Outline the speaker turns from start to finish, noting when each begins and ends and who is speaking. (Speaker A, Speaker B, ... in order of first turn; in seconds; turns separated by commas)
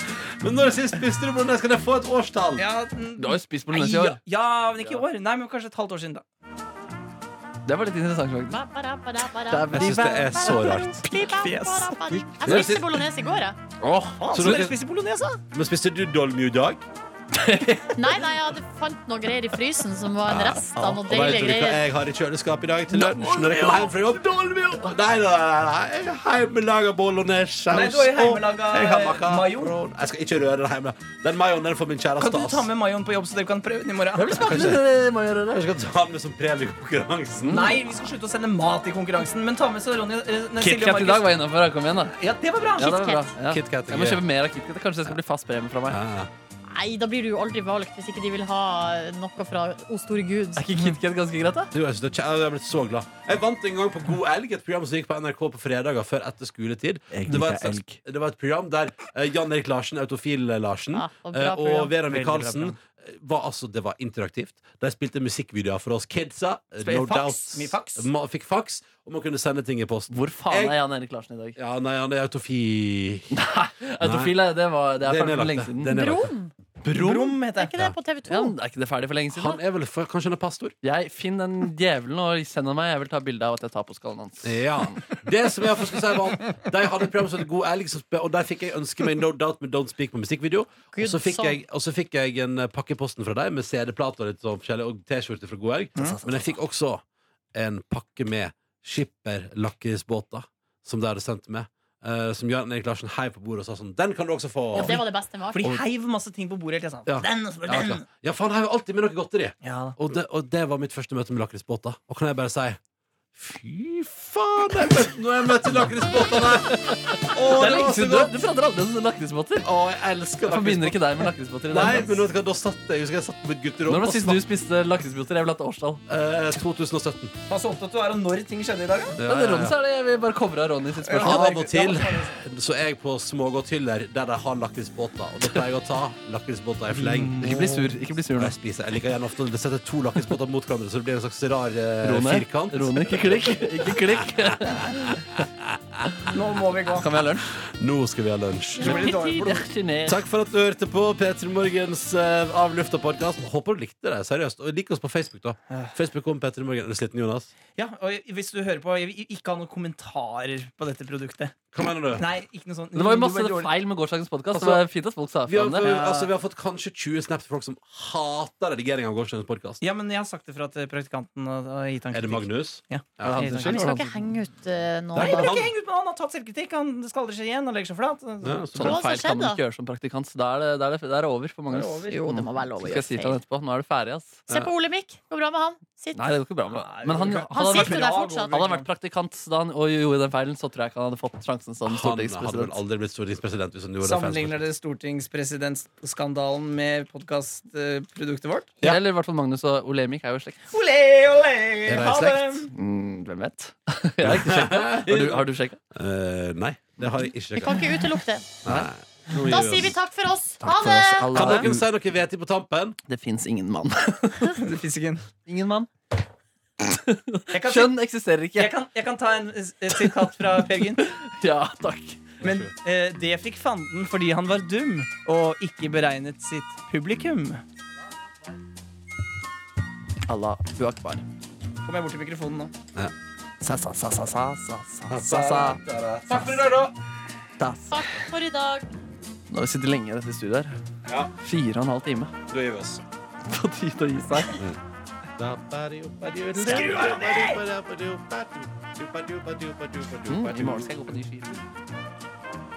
Speaker A: 0.4-2.6, Speaker B: 2.6-6.2, Speaker C: 3.2-4.2, Speaker C: 7.6-8.6, Speaker D: 8.5-9.8, Speaker C: 9.5-10.6, Speaker A: 9.7-11.0, Speaker D: 10.4-13.6, Speaker B: 11.1-12.7, Speaker A: 12.4-12.9, Speaker C: 13.8-14.5, Speaker B: 14.2-15.4, Speaker A: 14.3-14.8, Speaker A: 15.5-16.8, Speaker C: 17.3-18.2, Speaker D: 17.9-21.8, Speaker A: 20.3-32.7, Speaker C: 23.0-23.6, Speaker B: 23.2-24.0, Speaker B: 27.7-29.7, Speaker B: 32.2-34.7, Speaker C: 34.1-35.6, Speaker A: 34.3-34.9, Speaker A: 35.4-37.7, Speaker C: 37.4-37.8, Speaker B: 37.5-41.3, Speaker C: 40.6-42.2, Speaker B: 42.2-43.2, Speaker C: 42.8-46.0, Speaker A: 43.5-44.2, Speaker A: 45.9-46.3, Speaker D: 46.7-50.6, Speaker C: 50.6-51.7, Speaker A: 51.7-70.8, Speaker C: 57.1-58.0, Speaker D: 60.9-61.9, Speaker B: 62.1-62.8, Speaker B: 66.8-68.1, Speaker C: 70.1-71.6, Speaker A: 71.6-73.3, Speaker C: 73.3-76.0, Speaker A: 74.0-74.4, Speaker A: 75.0-76.3, Speaker D: 75.9-76.5, Speaker C: 76.9-77.3, Speaker B: 76.9-77.7, Speaker D: 77.5-78.5, Speaker C: 78.3-79.6, Speaker A: 79.3-80.8, Speaker C: 80.8-85.1, Speaker A: 84.4-97.0, Speaker D: 90.9-91.6, Speaker A: 97.5-105.0, Speaker D: 104.7-105.8, Speaker B: 104.8-108.0, Speaker A: 107.0-112.8, Speaker B: 109.6-110.0, Speaker A: 113.3-118.4, Speaker C: 116.7-119.7, Speaker A: 119.6-124.5, Speaker C: 120.4-122.3, Speaker C: 123.8-126.0, Speaker A: 126.1-127.3, Speaker B: 127.5-129.2, Speaker A: 129.2-129.8, Speaker C: 129.2-131.5, Speaker B: 131.0-132.4, Speaker A: 131.2-137.8, Speaker B: 136.9-137.9, Speaker C: 137.3-138.5, Speaker A: 138.3-144.9, Speaker C: 142.0-145.2, Speaker B: 146.3-147.3, Speaker C: 146.9-147.5, Speaker A: 147.6-149.3, Speaker B: 148.8-149.7, Speaker C: 148.8-150.2, Speaker A: 150.0-157.5, Speaker B: 157.8-161.6, Speaker A: 161.7-162.2, Speaker B: 162.1-163.7, Speaker C: 162.9-166.0, Speaker A: 164.5-164.8, Speaker A: 165.4-169.8, Speaker B: 165.8-166.3, Speaker B: 169.8-173.8, Speaker A: 172.1-173.6, Speaker C: 173.2-174.1, Speaker D: 173.6-175.6, Speaker A: 175.2-175.7, Speaker B: 175.2-178.6, Speaker A: 178.4-179.0, Speaker C: 178.7-184.5, Speaker D: 178.8-179.6, Speaker B: 181.7-182.2, Speaker D: 182.1-183.4, Speaker D: 184.5-186.2, Speaker C: 186.1-192.7, Speaker B: 186.7-188.9, Speaker D: 187.5-188.6, Speaker A: 191.8-194.7, Speaker B: 194.0-198.8, Speaker C: 198.8-200.6, Speaker B: 200.7-202.7, Speaker A: 201.8-202.6, Speaker C: 202.7-205.8, Speaker A: 204.2-207.8, Speaker D: 207.6-208.5, Speaker A: 208.6-209.9, Speaker C: 208.6-209.5, Speaker D: 209.4-211.3, Speaker C: 210.6-211.8, Speaker B: 211.3-211.7, Speaker A: 211.3-213.0, Speaker C: 213.1-214.7, Speaker B: 214.6-215.2, Speaker C: 215.4-215.9, Speaker C: 216.8-218.7, Speaker B: 217.5-218.0, Speaker B: 218.5-221.1, Speaker C: 220.8-222.4, Speaker A: 222.4-222.7, Speaker B: 222.4-227.6, Speaker C: 230.3-231.2, Speaker B: 231.8-232.7, Speaker C: 233.6-235.8, Speaker A: 235.1-236.9, Speaker C: 237.6-238.2, Speaker D: 237.9-238.9, Speaker C: 239.5-240.8, Speaker A: 241.1-241.3, Speaker C: 241.4-242.3, Speaker A: 242.5-243.0, Speaker C: 243.5-244.6, Speaker A: 245.4-251.0, Speaker B: 246.5-247.6, Speaker C: 250.3-251.6